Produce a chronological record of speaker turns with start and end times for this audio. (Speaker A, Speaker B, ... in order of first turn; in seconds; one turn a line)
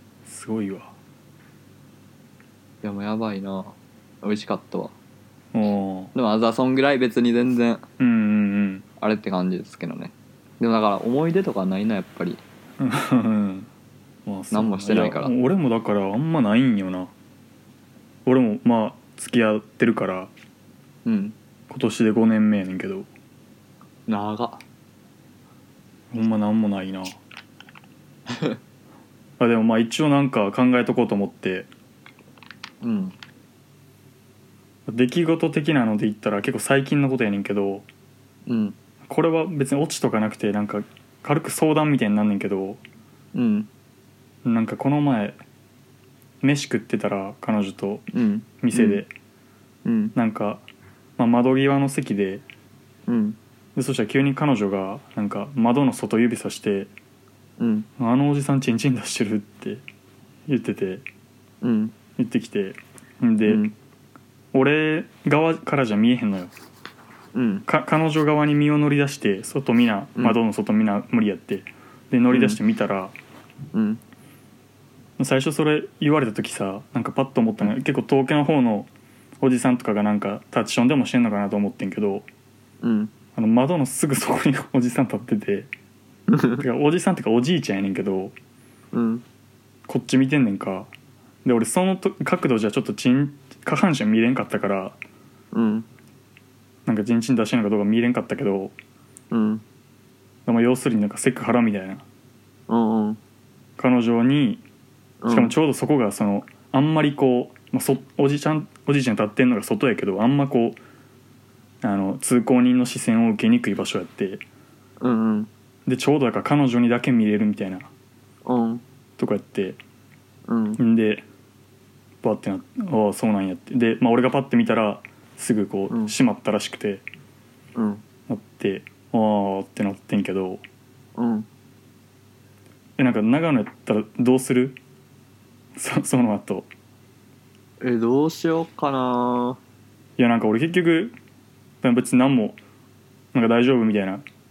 Speaker A: 0.3-0.9
Speaker B: 2.8-4.9
Speaker A: 5.5-6.1
Speaker B: 6.1-7.8
Speaker A: 8.0-8.9
Speaker B: 9.0-12.4
Speaker A: 12.8-13.7
Speaker A: 14.2-17.1
Speaker B: 14.5-15.3
Speaker A: 18.3-20.3
Speaker B: 21.1-21.4
Speaker A: 21.7-23.1
Speaker B: 24.1-24.6
Speaker A: 26.1-27.2
Speaker B: 28.3-28.6
Speaker A: 29.4-31.7
Speaker B: 32.8-33.1
Speaker A: 34.9-37.9
Speaker B: 38.5-38.8
Speaker A: 39.0-42.8
Speaker B: 43.3-43.7
Speaker A: 44.5-45.4
Speaker A: 46.4-48.1
Speaker B: 48.1-49.0
Speaker A: 48.6-49.1
Speaker B: 49.9-50.1
Speaker A: 50.1-50.6
Speaker A: 51.2-52.4
Speaker B: 53.1-53.4
Speaker A: 53.8-56.9
Speaker B: 57.6-57.9
Speaker A: 58.0-59.8
Speaker A: 60.5-61.0
Speaker B: 61.6-62.0
Speaker A: 62.2-63.6
Speaker B: 63.5-63.7
Speaker A: 64.5-66.5
Speaker B: 67.3-67.7
Speaker A: 67.7-73.2
Speaker B: 72.3-72.6
Speaker B: 73.7-74.0
Speaker A: 75.2-78.9
Speaker A: 79.4-82.3
Speaker B: 82.8-83.1
Speaker A: 83.4-85.7
Speaker B: 86.3-86.6
Speaker A: 86.6-88.4
Speaker B: 88.9-89.2
Speaker A: 89.9-90.9
Speaker A: 91.4-95.0
Speaker B: 95.5-95.9
Speaker A: 96.9-98.8
Speaker B: 99.3-99.6
Speaker A: 100.5-102.0
Speaker B: 102.7-103.2
Speaker A: 103.8-104.6
Speaker B: 105.2-105.6
Speaker A: 105.3-110.8
Speaker A: 111.8-114.4
Speaker B: 115.0-115.5
Speaker A: 115.9-117.9
Speaker B: 118.5-118.8
Speaker A: 119.2-119.8
Speaker B: 120.5-120.8
Speaker A: 120.8-121.3
Speaker A: 122.2-127.0
Speaker B: 125.9-126.2
Speaker B: 127.8-128.0
Speaker A: 128.3-130.6
Speaker B: 131.2-131.5
Speaker A: 133.0-134.8
Speaker A: 135.8-136.7
Speaker B: 137.8-139.6
Speaker A: 140.2-141.2
Speaker A: 141.8-142.6
Speaker A: 143.3-144.2